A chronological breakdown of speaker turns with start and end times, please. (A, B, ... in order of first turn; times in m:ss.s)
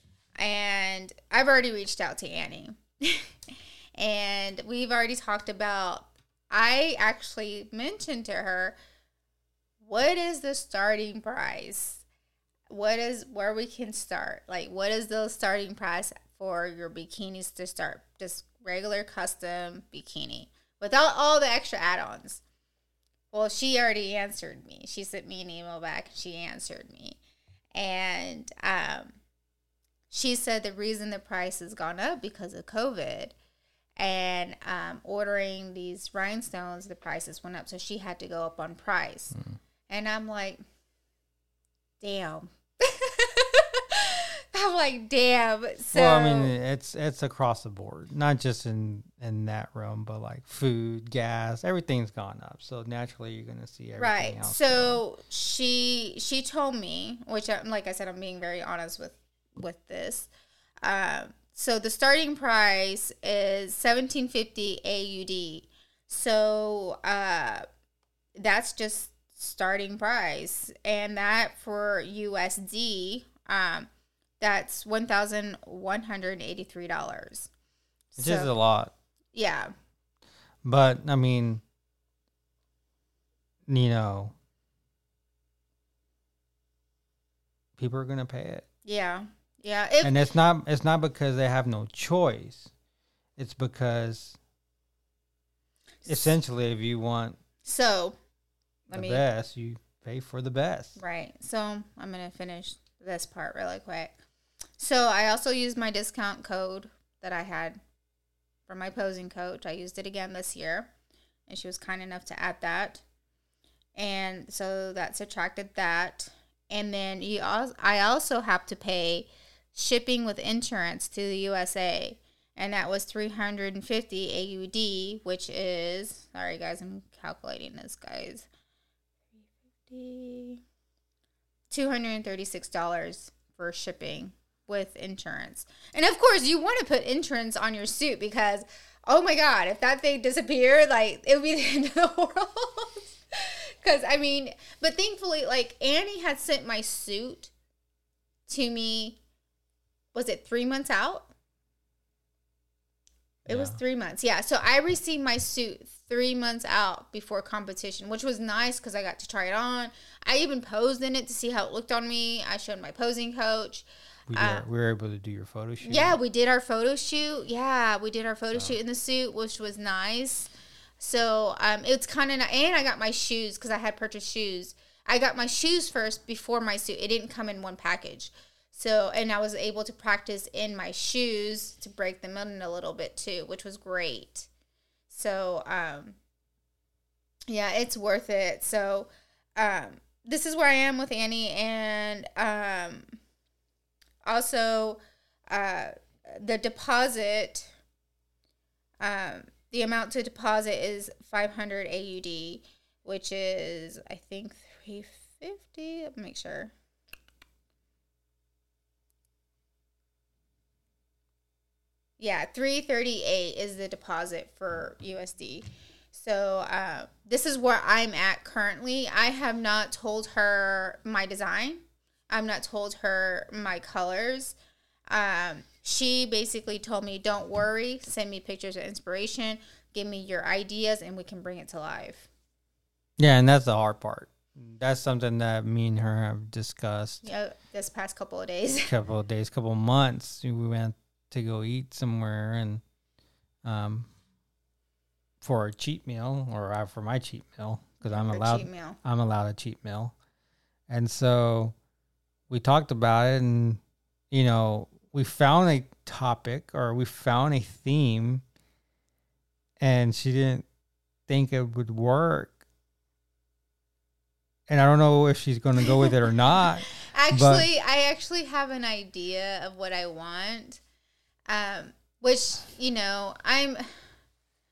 0:00.4-0:08.8 A
0:09.8-0:12.0 A
0:12.7-0:22.4 A
0:23.3-0:27.2 A
0:27.7-0:29.2 A
0:30.1-0:33.3 A
0:34.0-0:39.4 A
0:39.9-0:40.6 A
0:42.0-0:46.5 A
0:45.9-0:55.0 B
0:54.0-1:00.3 A
1:00.8-1:07.6 A
1:08.4-1:13.9 A
1:14.4-1:17.5 A
1:18.1-1:18.5 A
1:18.2-1:18.9 B
1:19.3-1:19.7 A
1:20.6-1:21.6 B
1:23.7-1:24.4 B
1:27.8-1:28.6 B
1:28.8-1:30.2 A
1:30.0-1:32.7 B
1:33.4-1:34.4 B
1:36.0-1:36.4 A
1:36.1-1:37.4 B
1:37.6-1:38.2 A
1:38.9-1:39.2 A
1:38.9-1:41.0 B
1:41.0-1:44.2 A
1:44.8-1:47.8 A
1:48.7-1:50.9 A
1:51.5-1:53.0 A
1:54.0-2:08.5 A
2:09.4-2:10.6 A
2:11.7-2:27.5 A
2:28.5-2:29.2 A
2:30.1-2:31.3 A
2:33.5-2:44.7 A
2:33.5-2:33.8 B
2:44.3-2:46.2 B
2:45.8-3:04.5 A
3:05.1-3:06.2 A
3:07.5-3:13.2 A
3:14.3-3:17.7 A
3:19.0-3:26.7 A
3:32.2-3:44.6 A
3:45.1-3:52.3 A
3:53.2-3:57.3 B
3:57.2-3:58.9 A
3:58.9-4:02.8 B
4:03.6-4:04.1 B
4:05.4-4:10.1 B
4:08.0-4:09.0 A
4:10.9-4:11.8 B
4:12.5-4:13.8 B
4:14.3-4:18.4 B
4:19.8-4:20.6 B
4:21.3-4:22.6 B
4:24.7-4:27.7 B
4:25.9-4:26.1 A
4:26.9-4:30.8 A
4:31.5-4:33.9 A